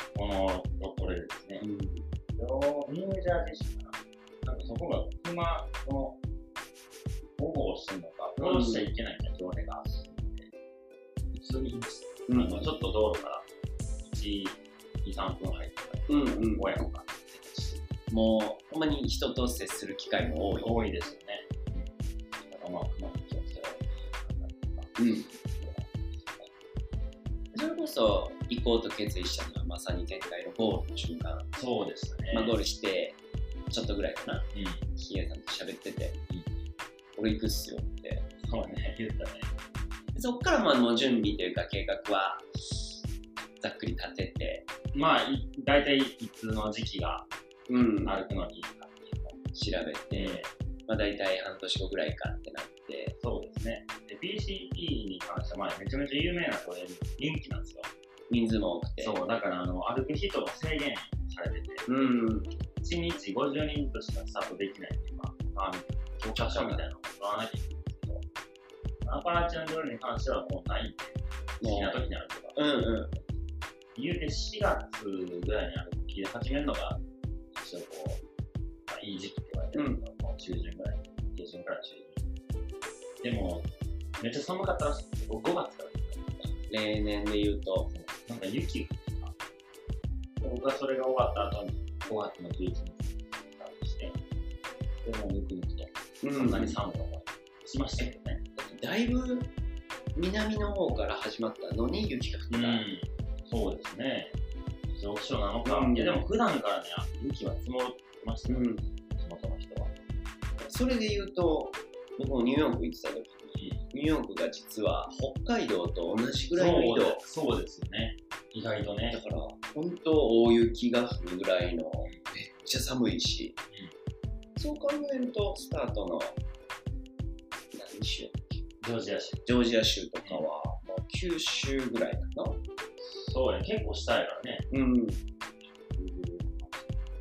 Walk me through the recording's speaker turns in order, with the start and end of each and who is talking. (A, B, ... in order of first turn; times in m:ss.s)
0:00.1-0:01.6 A
0:01.6-0:02.1 B
0:02.4-0:06.2 A
0:07.4-0:10.5 A
0:08.4-0:08.9 B
0:11.3-0:13.5 A
0:12.3-0:12.7 B
0:14.0-0:17.9 A
0:16.1-0:16.8 B
0:18.1-0:20.8 B
0:20.6-0:26.5 A
0:25.0-0:25.3 B
0:27.5-0:31.5 B
0:31.6-0:32.6 A
0:32.3-0:33.2 B
0:33.7-0:36.2 B
0:34.5-0:34.8 A
0:36.3-0:36.6 A
0:37.2-0:38.3 B
0:38.4-0:39.6 A
0:40.2-0:43.0 B
0:43.6-0:44.7 B
0:44.9-0:47.3 A
0:47.7-0:48.2 B
0:48.0-0:49.4 A
0:49.5-0:53.2 B
0:50.1-0:50.5 A
0:53.2-0:57.9 A
0:58.3-0:59.2 B
0:59.0-1:01.8 A
1:01.9-1:02.5 B
1:02.8-1:08.2 A
1:06.4-1:06.8 B
1:09.0-1:13.4 A
1:11.6-1:12.0 B
1:12.6-1:13.2 B
1:14.0-1:17.0 A
1:17.5-1:18.2 A
1:18.9-1:22.2 A
1:19.7-1:20.0 B
1:23.2-1:26.4 A
1:26.6-1:27.9 B
1:27.9-1:29.4 A
1:30.4-1:34.2 A
1:35.0-1:38.4 A
1:36.2-1:36.8 B
1:38.0-1:39.5 B
1:40.2-1:42.8 B
1:42.5-1:44.4 A
1:44.9-1:49.9 A
1:45.6-1:46.2 B
1:48.5-1:48.8 B
1:50.6-1:57.2 B
1:56.5-1:59.2 A
1:59.1-2:03.6 B
2:04.6-2:06.4 B
2:07.7-2:08.6 B
2:08.8-2:09.5 A
2:09.5-2:12.6 B
2:13.0-2:14.7 A
2:14.7-2:15.2 B
2:15.8-2:17.0 A